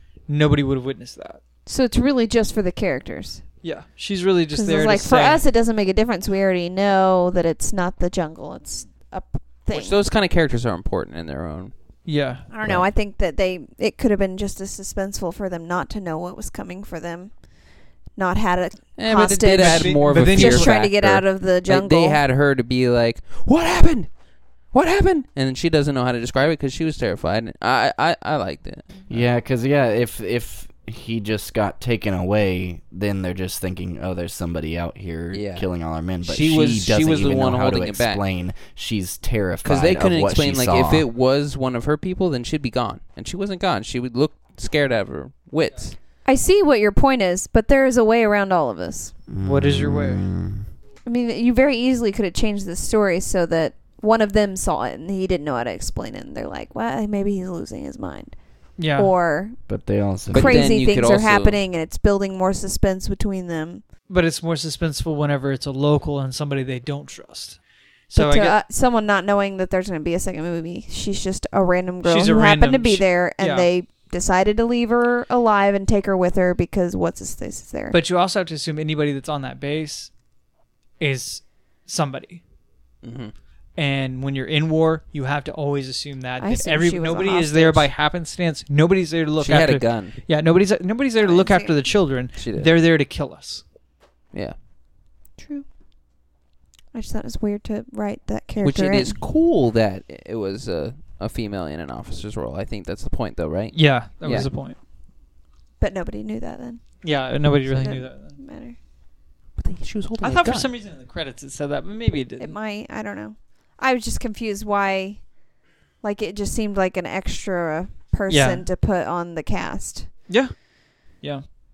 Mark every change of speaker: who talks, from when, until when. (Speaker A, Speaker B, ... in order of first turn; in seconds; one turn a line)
Speaker A: 0.3-1.4
Speaker B: 1.6-3.4
Speaker A: 3.6-5.4
Speaker B: 4.5-9.9
Speaker C: 9.7-11.7
Speaker A: 12.1-12.4
Speaker B: 12.5-17.5
Speaker B: 18.1-22.2
Speaker C: 19.0-24.1
Speaker A: 19.6-20.8
Speaker C: 24.7-29.3
Speaker D: 29.1-41.1
Speaker C: 35.3-35.6
Speaker C: 36.2-38.2
Speaker C: 39.6-46.0
Speaker B: 46.2-49.1
Speaker D: 49.3-50.6
Speaker A: 49.4-50.2
Speaker B: 51.0-58.3
Speaker A: 58.8-59.1
Speaker B: 58.9-59.6
Speaker D: 59.7-60.7
Speaker B: 60.3-63.8
Speaker C: 60.3-61.6
Speaker A: 64.1-68.6
Speaker B: 68.1-78.0
Speaker A: 72.0-73.7
Speaker A: 77.9-80.1
Speaker A: 81.0-82.4
Speaker C: 83.0-83.3
Speaker A: 83.8-93.6
Speaker B: 86.4-87.9
Speaker C: 89.4-90.2
Speaker B: 91.2-91.8
Speaker C: 92.4-92.7
Speaker B: 95.4-95.7
Speaker B: 96.9-99.2
Speaker C: 98.6-104.5
Speaker A: 103.7-104.8
Speaker B: 105.8-106.8
Speaker A: 107.0-108.4
Speaker B: 107.6-108.8
Speaker C: 109.6-110.7
Speaker A: 110.2-112.5
Speaker B: 112.4-115.2
Speaker B: 116.0-120.1
Speaker A: 118.3-118.7